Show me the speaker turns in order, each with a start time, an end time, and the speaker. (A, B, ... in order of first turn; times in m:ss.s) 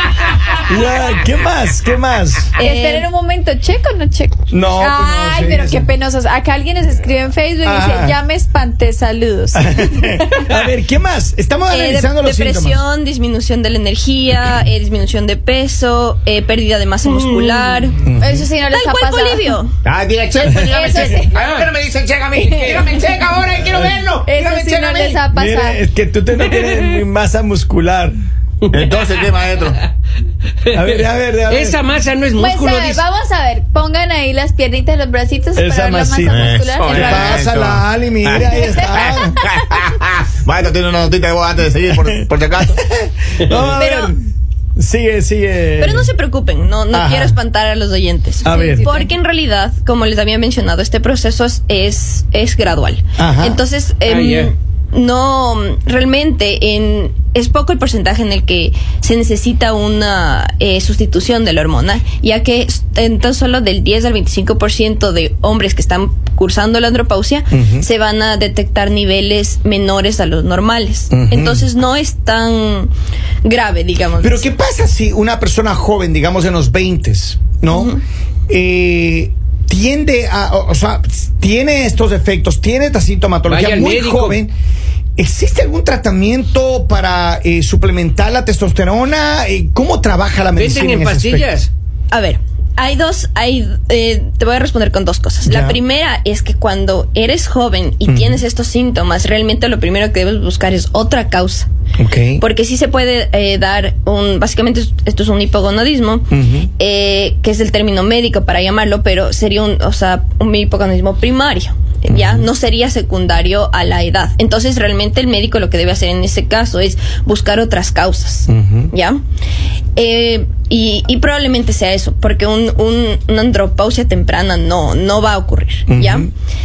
0:00.6-0:02.5 A
0:02.6-0:03.1 B
0:02.6-0:10.4 C
0:04.5-0:05.9 A
0:07.6-0:08.2 A
0:09.6-0:12.8 A
0:11.7-0:18.0 B
0:17.0-0:17.9 D
0:18.0-0:18.5 A
0:18.2-0:19.6 C
0:18.7-0:19.7 B
0:19.8-0:25.2 E
0:20.4-0:21.4 C
0:21.3-0:21.7 D
0:22.4-0:23.1 C
0:22.5-0:22.8 D
0:24.2-0:25.8 C
0:25.3-0:28.2 A
0:26.5-0:26.8 D
0:28.7-0:29.8 E
0:28.7-0:29.9 D
0:30.6-0:33.0 D
0:30.7-0:31.8 A
0:32.4-0:37.5 C
0:35.6-0:39.4 A
0:36.3-0:42.8 E
0:38.6-0:39.8 C
0:42.8-0:44.2 A
0:43.8-0:44.1 B
0:44.8-0:46.1 A
0:45.8-1:12.9 B
0:46.9-0:47.4 A
0:48.4-0:48.9 A
0:48.4-0:49.1 C
0:53.2-0:53.6 A
0:54.0-0:54.5 D
1:07.5-1:07.9 A
1:11.1-1:11.7 A
1:13.4-1:14.5 B
1:14.2-1:18.0 A
1:17.7-1:18.0 B
1:18.5-1:24.5 A
1:23.5-1:24.4 D
1:25.2-1:31.5 A
1:30.6-1:31.7 D
1:32.1-1:41.7 B
1:35.4-1:35.8 A
1:38.1-1:38.4 A
1:42.0-1:42.4 A
1:42.4-1:59.2 B
1:46.3-1:46.7 A
1:52.1-1:52.5 A
1:58.5-1:58.9 A
2:00.0-2:06.3 B
2:05.9-2:06.3 A